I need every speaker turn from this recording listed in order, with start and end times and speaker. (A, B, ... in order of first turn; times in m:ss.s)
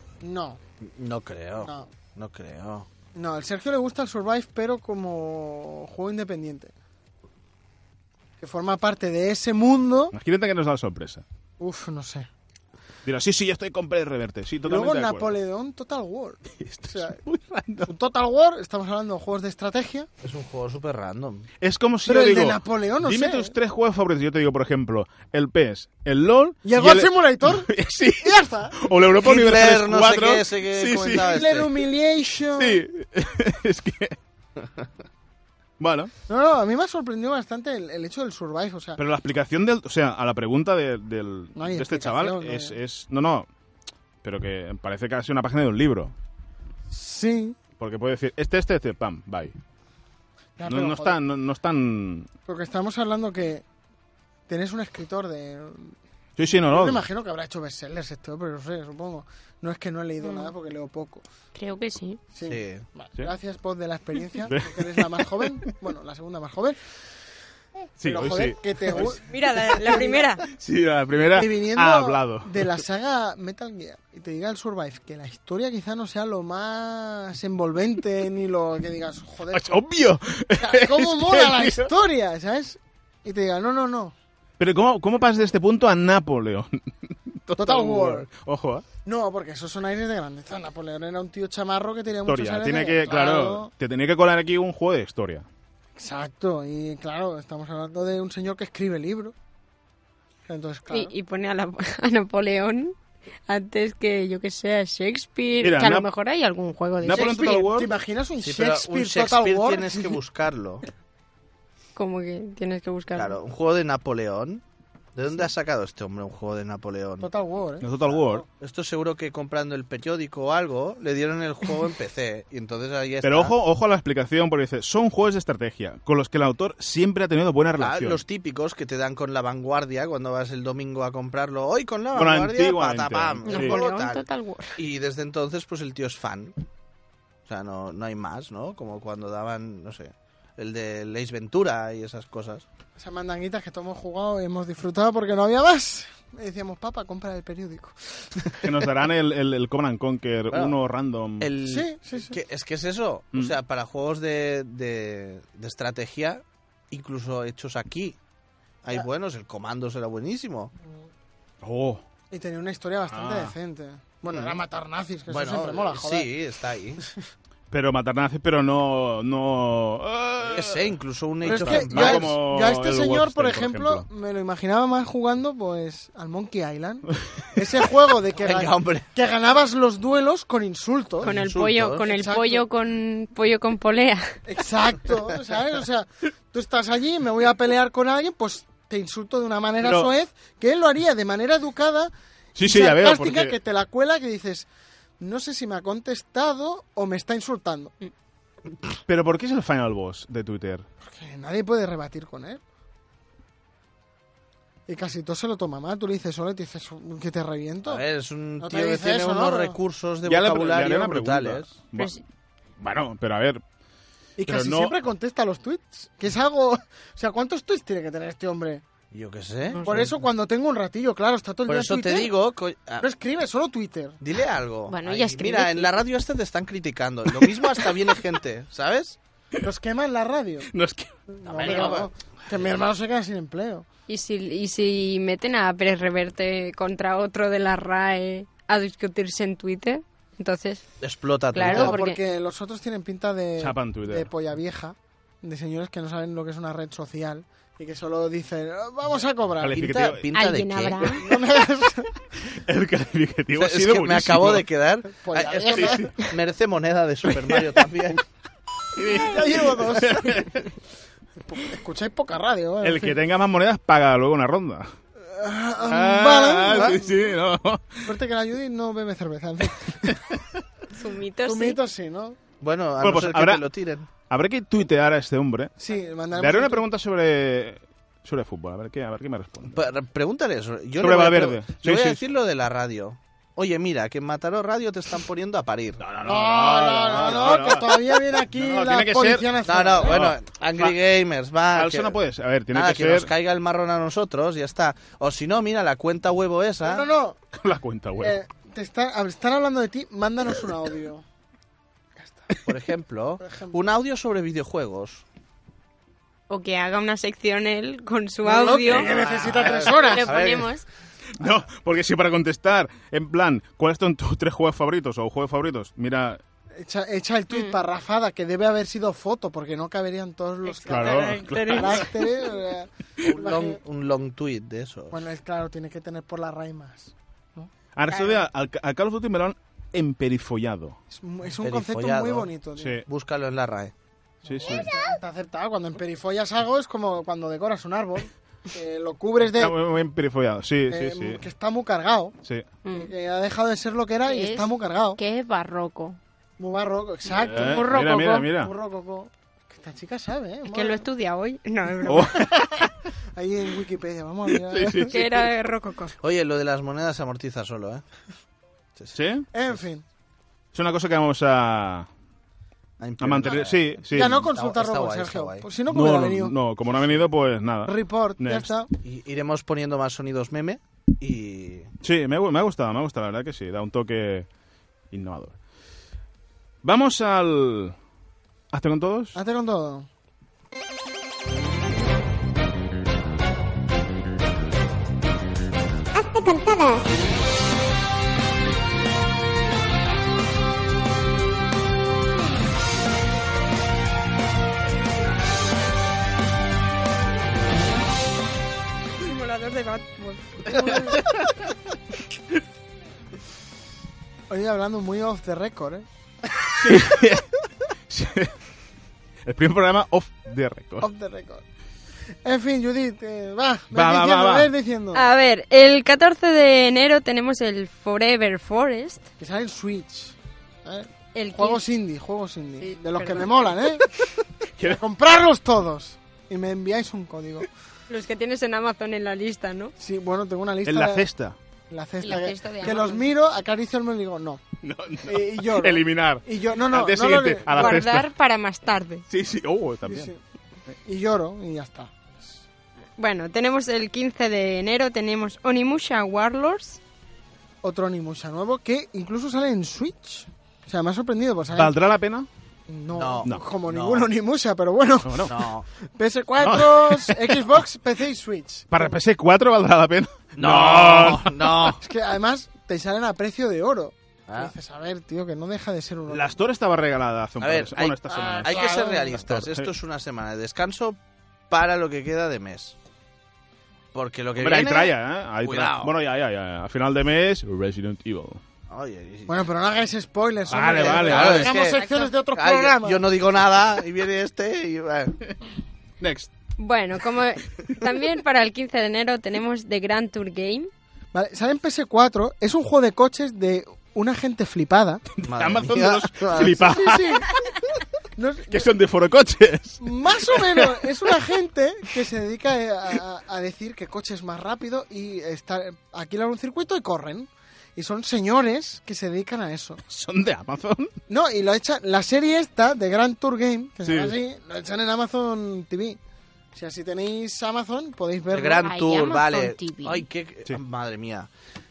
0:00.2-0:00.6 A
0:00.8-0:02.9 B
0:01.6-0:01.9 A
0:03.1-0:06.7 A
0:08.4-0:10.1 A
0:10.1-0:11.2 C
0:11.6-0:12.3 A
0:13.0-0:15.4 C
0:14.6-0:17.2 A
0:16.5-0:17.9 C
0:17.8-0:20.1 A
0:20.2-0:21.5 B
0:21.6-0:31.5 C
0:22.0-0:23.5 A
0:26.6-0:28.8 A
0:29.2-0:31.7 B
0:31.2-0:32.8 A
0:32.6-0:34.2 C
0:35.8-0:36.1 C
0:36.3-0:39.0 A
0:39.0-0:43.5 C
0:41.5-0:42.8 A
0:44.2-0:46.1 C
0:46.9-0:47.6 A
0:47.8-0:49.5 C
0:50.6-0:51.2 A
0:50.7-0:52.3 C
0:52.5-0:53.6 A
0:54.5-0:56.0 A
0:56.4-0:57.0 C
0:56.7-1:01.2 A
1:00.2-1:00.5 D
1:01.5-1:02.2 D
1:02.3-1:06.8 A
1:02.4-1:02.8 B
1:04.5-1:05.6 C
1:08.0-1:09.2 C
1:08.0-1:10.2 A
1:09.3-1:10.4 D
1:10.4-1:12.8 C
1:11.3-1:19.8 A
1:19.5-1:21.9 C
1:20.6-1:24.1 A
1:24.6-1:28.8 C
1:27.6-1:28.3 A
1:29.0-1:33.7 A
1:32.2-1:35.4 C
1:36.0-1:39.3 A
1:40.5-1:41.1 A
1:40.9-1:42.9 D
1:43.5-1:47.4 D
1:45.6-1:46.1 C
1:47.0-1:47.9 C
1:47.1-1:50.2 A
1:48.4-1:50.8 B
1:52.0-1:53.4 D
1:53.1-1:54.6 B
1:55.1-1:57.3 B
1:57.2-1:58.4 A
1:57.8-1:58.4 C
1:58.6-2:03.5 B
2:03.2-2:08.2 C
2:07.8-2:14.2 B
2:12.1-2:13.8 C
2:13.4-2:14.8 D
2:14.8-2:16.5 B
2:17.4-2:22.6 B
2:23.0-2:28.6 A
2:28.6-2:31.5 C
2:30.5-2:30.8 B
2:31.4-2:38.2 B
2:31.6-2:32.4 A
2:38.8-2:40.7 B
2:41.6-2:42.0 C
2:42.3-2:46.3 A
2:43.1-2:43.5 C
2:44.3-2:44.6 B
2:45.3-2:47.0 B
2:47.7-2:54.0 C
2:50.4-2:52.3 B
2:51.4-3:01.3 A
2:58.3-2:59.1 B
3:01.2-3:02.0 B
3:01.2-3:04.4 D
3:02.0-3:02.6 A
3:04.4-3:14.7 A
3:09.8-3:10.1 C
3:12.5-3:13.6 C
3:15.2-3:17.9 A
3:19.1-3:20.8 C
3:21.0-3:22.6 A
3:24.9-3:28.0 A
3:27.9-3:31.7 B
3:28.6-3:29.8 A
3:30.2-3:32.1 C
3:32.0-3:32.2 D
3:32.8-3:33.6 C
3:34.4-3:38.8 A
3:34.4-3:34.9 C
3:39.1-3:40.1 B
3:39.7-3:40.1 D
3:39.8-3:42.3 A
3:41.7-3:43.1 B
3:43.0-3:44.2 A
3:44.2-3:49.2 B
3:44.9-3:46.0 D
3:49.6-3:50.7 A
3:50.7-3:52.0 C
3:51.3-3:53.8 A
3:51.5-3:52.1 B
3:54.1-4:00.8 D
4:01.0-4:02.0 B
4:01.5-4:02.2 D
4:01.6-4:09.9 A
4:03.6-4:04.3 C
4:09.6-4:10.3 C
4:09.7-4:11.2 B
4:10.3-4:11.2 D
4:11.1-4:12.2 A
4:12.4-4:14.7 C
4:13.6-4:18.2 B
4:15.2-4:16.2 A
4:15.6-4:16.1 C
4:17.3-4:17.9 C
4:18.9-4:20.7 C
4:19.0-4:20.4 A
4:21.4-4:23.2 A
4:22.8-4:24.9 C
4:25.2-4:27.2 A
4:25.8-4:28.1 C
4:28.0-4:30.2 A
4:30.0-4:30.6 C
4:30.9-4:31.8 D
4:31.4-4:32.4 A
4:32.6-4:34.1 B
4:33.0-4:33.6 C
4:34.3-4:35.7 C
4:35.8-4:36.8 A
4:36.3-4:39.8 C
4:39.7-4:46.0 B
4:41.0-4:42.2 C
4:46.0-4:49.5 C
4:46.2-4:50.3 A
4:49.6-4:52.2 B
4:50.0-4:51.0 C
4:51.7-4:53.3 C
4:52.7-4:57.1 B
4:56.8-4:57.4 A
4:57.5-4:58.4 C
4:58.2-5:01.2 A
5:02.2-5:02.5 A
5:02.6-5:05.2 B
5:03.4-5:03.8 A
5:06.5-5:10.8 D
5:08.4-5:10.3 A
5:08.9-5:10.7 B
5:11.3-5:16.4 C
5:16.8-5:23.8 A
5:17.5-5:17.8 D
5:20.6-5:22.2 D
5:20.9-5:22.1 C
5:23.2-5:25.2 B
5:25.1-5:27.7 A
5:28.0-5:31.0 C
5:28.1-5:28.4 D
5:31.1-5:33.0 A
5:31.6-5:32.5 B
5:32.8-5:33.0 C
5:33.0-5:33.9 B
5:34.4-5:39.8 A
5:34.4-5:34.9 C
5:34.7-5:35.0 D
5:39.5-5:41.4 C
5:40.9-5:42.3 A
5:42.8-5:43.1 D
5:42.9-5:45.2 A
5:44.2-5:46.2 D
5:46.6-5:51.0 A
5:47.4-5:48.7 C
5:47.5-5:48.5 D
5:50.6-5:52.3 D
5:52.0-5:52.9 C
5:52.2-5:55.2 A
5:54.5-5:55.4 C
5:55.1-5:56.1 D
5:56.2-5:58.0 B
5:59.1-5:59.5 C
5:59.5-6:00.0 A
6:00.7-6:02.1 C
6:03.0-6:05.7 B
6:03.2-6:04.4 C
6:04.1-6:06.5 A
6:05.9-6:08.7 C
6:07.8-6:08.9 A
6:09.0-6:11.9 B
6:12.0-6:14.5 C
6:15.1-6:15.5 C
6:16.8-6:17.9 C
6:18.7-6:19.4 C
6:19.3-6:20.1 A
6:26.2-6:27.0 D
6:39.2-6:41.3 D
6:40.7-6:41.5 C
6:44.5-6:46.0 A
6:46.8-6:47.5 C
6:48.1-6:48.5 C
6:49.4-6:51.1 C
6:51.0-6:51.6 A
6:52.4-6:55.2 A
6:53.9-6:54.7 C
6:55.1-6:59.2 D
6:59.4-7:04.1 A
7:01.3-7:01.8 D
7:02.8-7:03.6 D
7:04.8-7:07.7 A
7:08.1-7:09.9 D
7:10.0-7:11.2 A
7:10.8-7:11.6 C
7:11.9-7:14.6 A
7:12.2-7:13.2 D
7:14.8-7:18.3 C
7:15.2-7:18.0 A
7:17.7-7:19.2 D
7:19.3-7:20.3 C
7:20.0-7:20.4 A
7:20.9-7:22.6 A
7:23.2-7:27.0 D
7:27.8-7:32.0 A
7:31.7-7:32.5 C
7:32.9-7:39.1 A
7:33.1-7:34.3 B
7:35.2-7:35.5 C
7:35.5-7:35.8 B
7:36.6-7:37.8 C
7:38.9-7:42.0 C
7:40.6-7:42.0 B
7:42.0-7:46.5 A
7:46.3-7:49.9 C
7:47.6-7:51.2 B
7:48.3-7:49.4 A
7:51.7-7:52.9 B
7:54.1-7:56.1 B
7:54.6-7:58.6 C
7:58.9-7:59.6 B
7:59.5-8:03.2 A
8:00.7-8:01.8 C
8:00.8-8:05.4 B
8:02.0-8:02.3 D
8:06.2-8:06.5 C
8:06.8-8:10.9 D
8:11.3-8:15.2 A
8:15.3-8:17.7 C
8:15.4-8:16.8 B
8:16.6-8:17.5 A
8:18.4-8:18.9 A
8:18.7-8:21.0 C
8:20.0-8:30.0 A
8:30.0-8:31.1 C
8:31.3-8:36.2 A
8:34.0-8:34.4 C
8:36.7-8:38.8 A
8:38.5-8:41.5 B
8:38.7-8:40.2 D